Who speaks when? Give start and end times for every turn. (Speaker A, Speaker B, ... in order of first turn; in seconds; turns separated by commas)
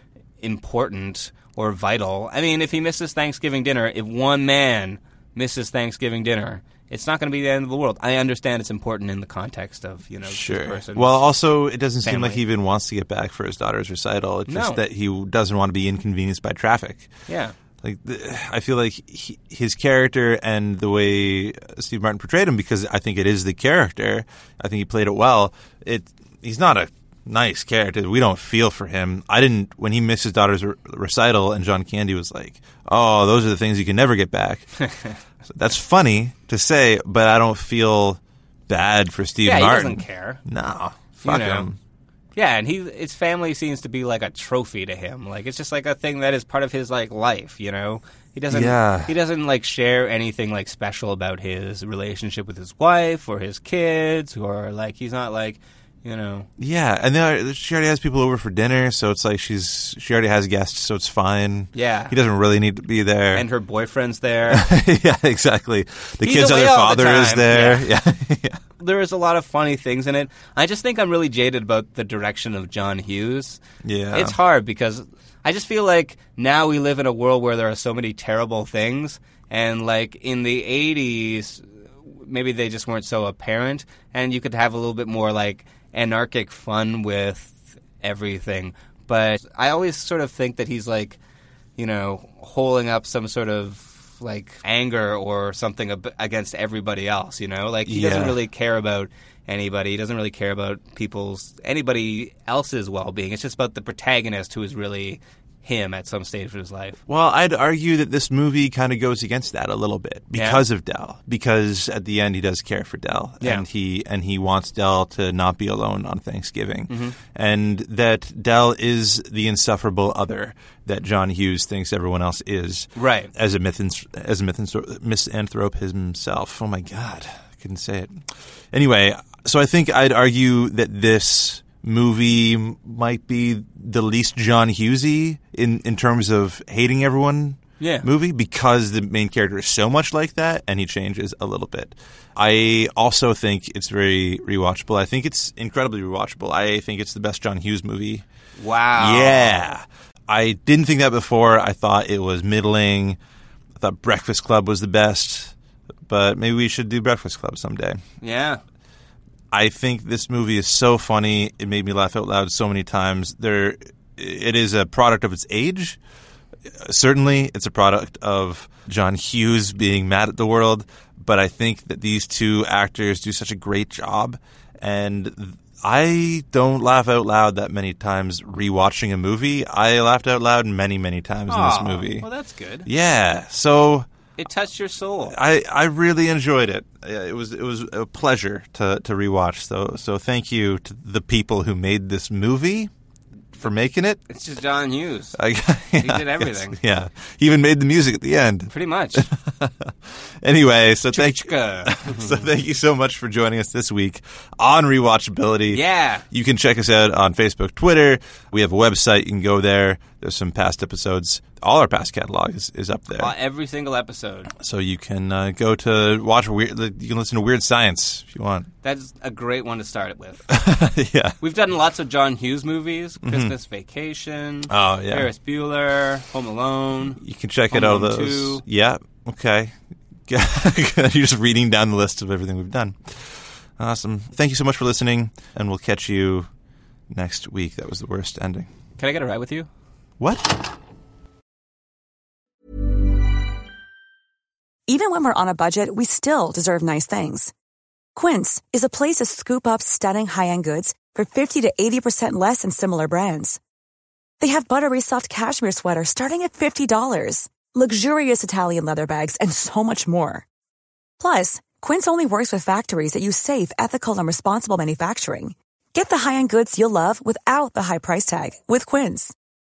Speaker A: 0.4-11.2, Speaker B: 10.3-17.1, Speaker A: 12.0-12.4, Speaker A: 14.5-14.8, Speaker A: 17.3-17.6, Speaker B: 17.8-34.7, Speaker A: 34.8-35.1, Speaker B: 35.5-41.8, Speaker A: 39.4-40.4, Speaker A: 41.2-41.7, Speaker A: 42.3-56.5, Speaker B: 48.5-49.1, Speaker B: 56.6-63.5, Speaker A: 61.7-62.1, Speaker A: 63.3-64.6, Speaker B: 64.5-68.6, Speaker A: 66.2-67.9, Speaker A: 68.8-73.6, Speaker B: 73.8-74.3, Speaker A: 74.1-81.6, Speaker A: 82.2-91.2, Speaker A: 91.8-107.0, Speaker B: 97.8-98.4, Speaker B: 107.1-128.2, Speaker A: 110.3-110.6, Speaker A: 116.9-117.2, Speaker A: 123.0-123.3, Speaker B: 128.7-148.2, Speaker A: 137.8-138.1, Speaker A: 148.6-149.6, Speaker B: 148.9-153.2, Speaker B: 153.8-155.5, Speaker B: 156.1-158.0, Speaker A: 158.2-158.6, Speaker B: 159.5-166.0, Speaker B: 166.7-182.3, Speaker A: 181.5-182.9, Speaker B: 182.8-184.1, Speaker A: 184.4-185.3, Speaker B: 185.3-192.9, Speaker B: 193.6-194.2, Speaker A: 194.3-195.3, Speaker B: 195.3-213.3, Speaker A: 196.0-196.8, Speaker A: 198.7-199.2, Speaker A: 201.1-202.4, Speaker A: 205.7-206.2, Speaker A: 213.2-214.5, Speaker B: 214.6-218.7, Speaker A: 218.8-220.4, Speaker B: 220.5-221.3, Speaker A: 221.4-227.2, Speaker B: 223.2-223.5, Speaker B: 224.7-225.3, Speaker B: 227.2-229.8, Speaker A: 227.7-228.6, Speaker B: 230.3-236.5, Speaker B: 237.1-238.7, Speaker A: 239.0-239.7, Speaker B: 240.2-240.6, Speaker C: 244.9-247.5, Speaker C: 248.1-253.6, Speaker C: 254.4-260.4, Speaker C: 261.2-269.3